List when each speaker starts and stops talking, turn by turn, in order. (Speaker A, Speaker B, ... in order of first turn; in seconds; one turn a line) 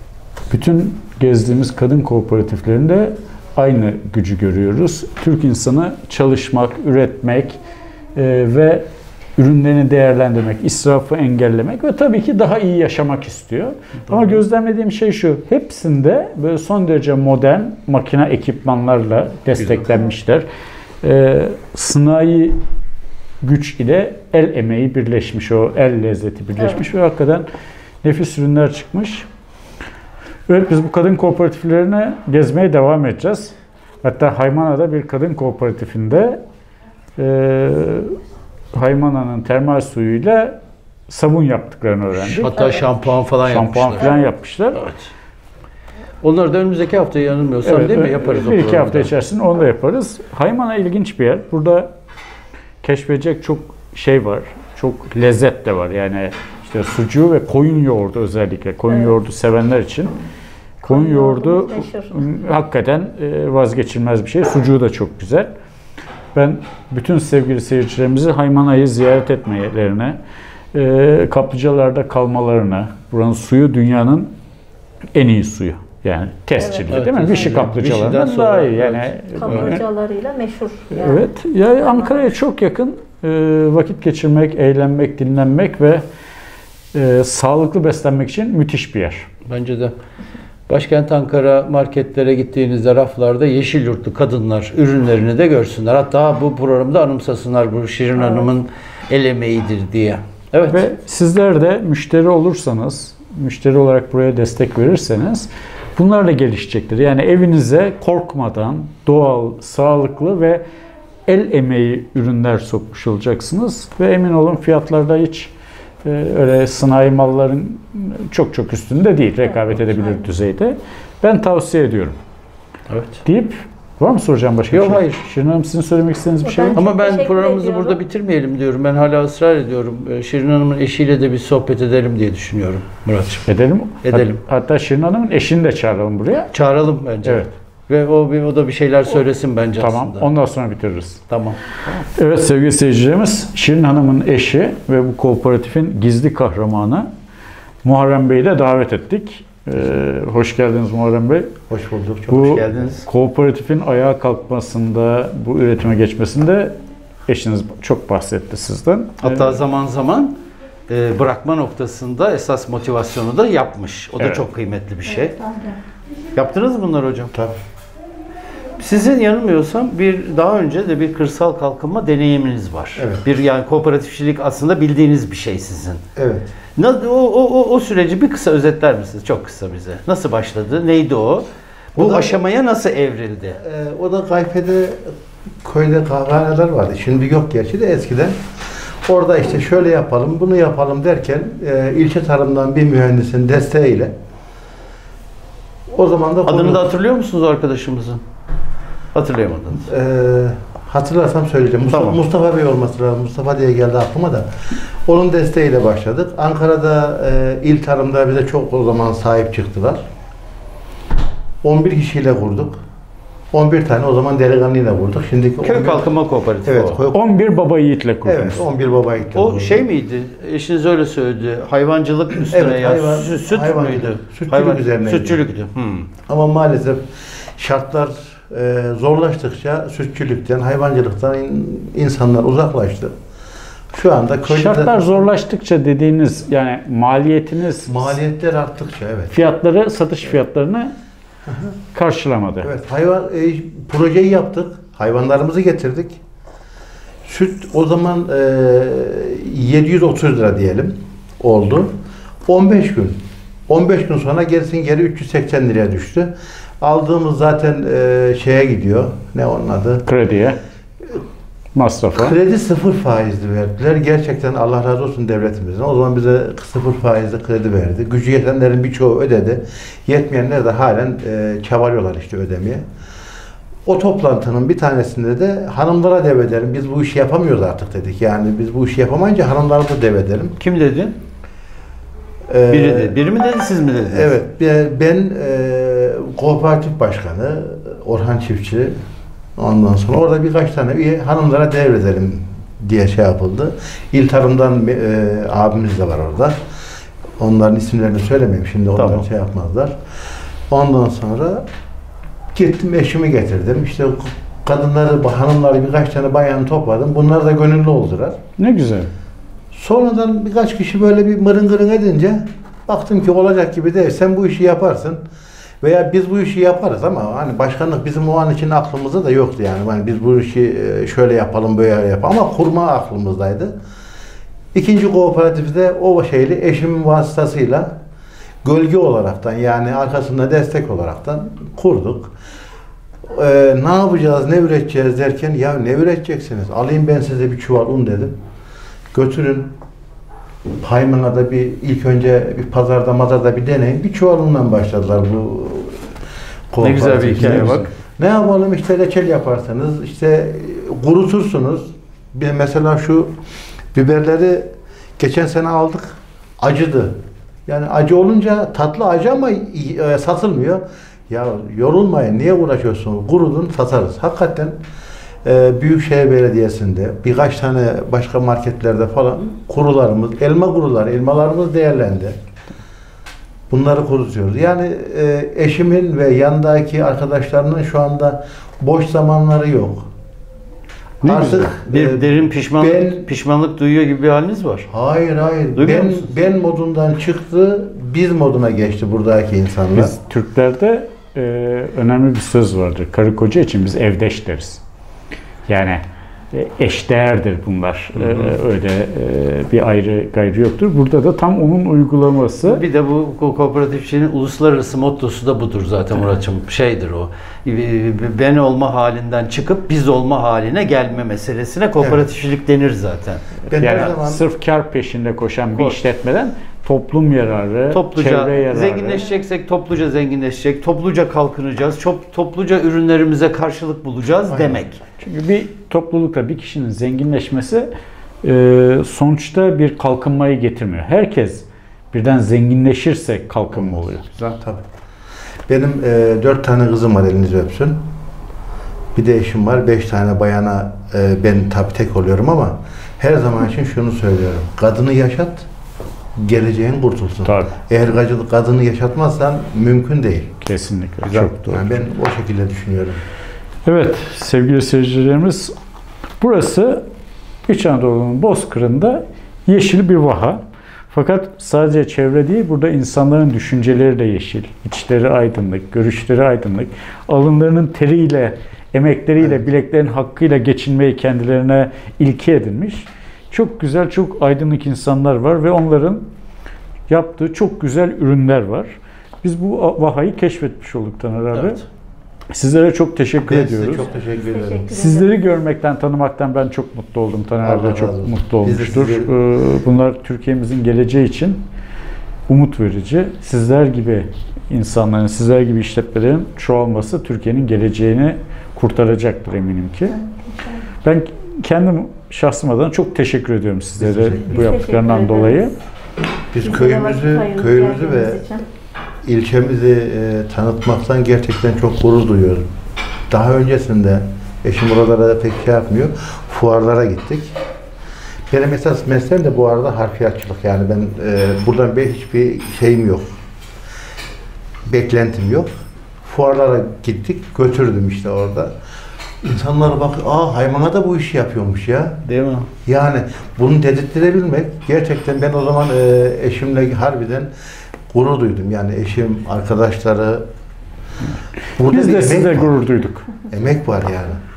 Speaker A: 0.5-7.6
Speaker A: 8.1-20.4
Speaker B: 14.1-14.4
Speaker B: 19.6-19.9
Speaker A: 21.0-22.6
Speaker A: 23.4-27.4
Speaker A: 28.0-29.2
Speaker A: 30.5-36.4
Speaker A: 37.2-38.1
Speaker A: 38.7-40.6
Speaker A: 41.1-42.5
Speaker B: 42.1-44.1
Speaker C: 42.5-42.9
Speaker A: 43.4-44.9
Speaker C: 44.0-44.3
Speaker B: 44.7-45.1
Speaker B: 46.2-49.1
Speaker A: 47.6-51.9
Speaker A: 52.8-60.1
Speaker A: 60.8-65.5
Speaker C: 60.9-62.2
Speaker A: 66.3-70.2
Speaker A: 70.7-74.3
Speaker A: 75.1-79.8
Speaker C: 76.6-77.0
Speaker B: 76.9-79.8
Speaker C: 79.3-81.2
Speaker A: 80.9-86.0
Speaker C: 81.8-82.2
Speaker A: 86.9-89.3
Speaker B: 89.5-89.9
Speaker B: 90.7-100.8
Speaker A: 100.7-110.6
Speaker A: 111.3-115.5
Speaker A: 116.0-122.2
Speaker C: 119.5-120.2
Speaker B: 122.9-123.2
Speaker A: 123.2-126.8
Speaker B: 124.7-125.2
Speaker C: 126.4-128.0
Speaker B: 126.7-133.4
Speaker A: 133.4-136.5
Speaker B: 134.0-134.4
Speaker B: 136.5-140.3
Speaker A: 139.8-141.2
Speaker B: 141.3-141.9
Speaker A: 142.1-147.1
Speaker A: 147.8-151.5
Speaker D: 151.7-152.9
Speaker B: 152.3-153.1
Speaker A: 152.4-156.8
Speaker A: 157.3-159.6
Speaker B: 159.2-160.3
Speaker B: 160.9-165.4
Speaker A: 164.2-164.4
Speaker B: 166.3-167.3
Speaker B: 168.8-176.0
Speaker D: 172.9-173.2
Speaker D: 176.2-176.4
Speaker B: 176.8-183.6
Speaker D: 182.0-182.4
Speaker D: 183.5-188.4
Speaker D: 189.0-194.1
Speaker D: 195.9-196.9
Speaker B: 196.4-198.2
Speaker B: 199.1-199.9
Speaker D: 199.8-204.5
Speaker B: 201.9-202.2
Speaker D: 205.1-210.0
Speaker D: 211.6-212.8
Speaker D: 213.5-216.1
Speaker B: 215.6-217.0
Speaker D: 216.6-217.3
Speaker A: 217.1-218.7
Speaker D: 218.2-219.9
Speaker B: 219.3-226.1
Speaker D: 222.5-225.4
Speaker D: 226.3-227.0
Speaker D: 227.6-233.1
Speaker D: 233.9-235.3
Speaker A: 234.4-238.2
Speaker D: 237.9-239.4
Speaker A: 239.3-240.9
Speaker A: 241.9-242.7
Speaker D: 242.6-246.2
Speaker D: 247.2-251.9
Speaker D: 252.4-260.0
Speaker A: 260.1-260.6
Speaker A: 261.7-262.3
Speaker D: 262.1-272.8
Speaker D: 273.9-280.6
Speaker B: 280.6-281.1
Speaker D: 282.5-283.2
Speaker B: 282.7-284.3
Speaker D: 284.1-288.9
Speaker D: 289.6-296.6
Speaker D: 297.4-299.9
Speaker B: 298.9-299.2
Speaker D: 300.7-301.6
Speaker D: 302.5-308.4
Speaker A: 308.6-309.1
Speaker D: 309.7-315.2
Speaker D: 315.8-323.7
Speaker D: 324.7-327.9
Speaker D: 328.6-332.3
Speaker D: 333.3-338.4
Speaker D: 339.1-339.7
Speaker D: 340.8-346.0
Speaker D: 346.7-353.3
Speaker B: 346.8-347.9
Speaker D: 353.9-357.1
Speaker D: 357.7-364.8
Speaker D: 365.4-372.4
Speaker D: 373.7-380.1
Speaker B: 381.2-384.9
Speaker D: 381.2-383.2
Speaker D: 384.9-390.1
Speaker B: 385.7-386.4
Speaker A: 389.9-394.8
Speaker A: 395.7-402.8
Speaker B: 398.1-398.6
Speaker B: 402.6-413.4
Speaker D: 412.0-412.2
Speaker D: 413.7-414.4
Speaker A: 413.7-419.2
Speaker B: 415.7-416.0
Speaker B: 417.9-425.0
Speaker D: 424.5-424.8
Speaker A: 425.2-427.9
Speaker A: 428.4-434.2
Speaker D: 433.7-434.8
Speaker D: 435.7-438.0
Speaker D: 439.1-445.6
Speaker D: 446.4-450.5
Speaker A: 447.4-447.7
Speaker A: 450.6-452.0
Speaker D: 451.2-453.2
Speaker A: 453.9-455.7
Speaker A: 456.4-457.0
Speaker A: 457.6-476.3
Speaker A: 477.1-481.8
Speaker B: 481.5-481.8
Speaker A: 482.5-484.1
Speaker D: 483.4-484.9
Speaker C: 484.3-485.3
Speaker A: 484.9-491.7
Speaker D: 487.6-489.3
Speaker A: 492.5-500.1
Speaker C: 500.1-500.9
Speaker A: 501.0-505.7
Speaker D: 504.0-504.6
Speaker C: 504.5-505.7
Speaker D: 506.5-508.4
Speaker C: 506.6-508.6
Speaker D: 509.2-512.6
Speaker D: 513.3-517.5
Speaker D: 518.5-523.3
Speaker D: 524.9-525.7
Speaker D: 526.2-528.7
Speaker D: 529.4-532.2
Speaker B: 532.2-532.7
Speaker D: 532.9-537.5
Speaker D: 538.1-540.4
Speaker D: 541.8-542.8
Speaker A: 541.8-543.3
Speaker D: 543.5-544.4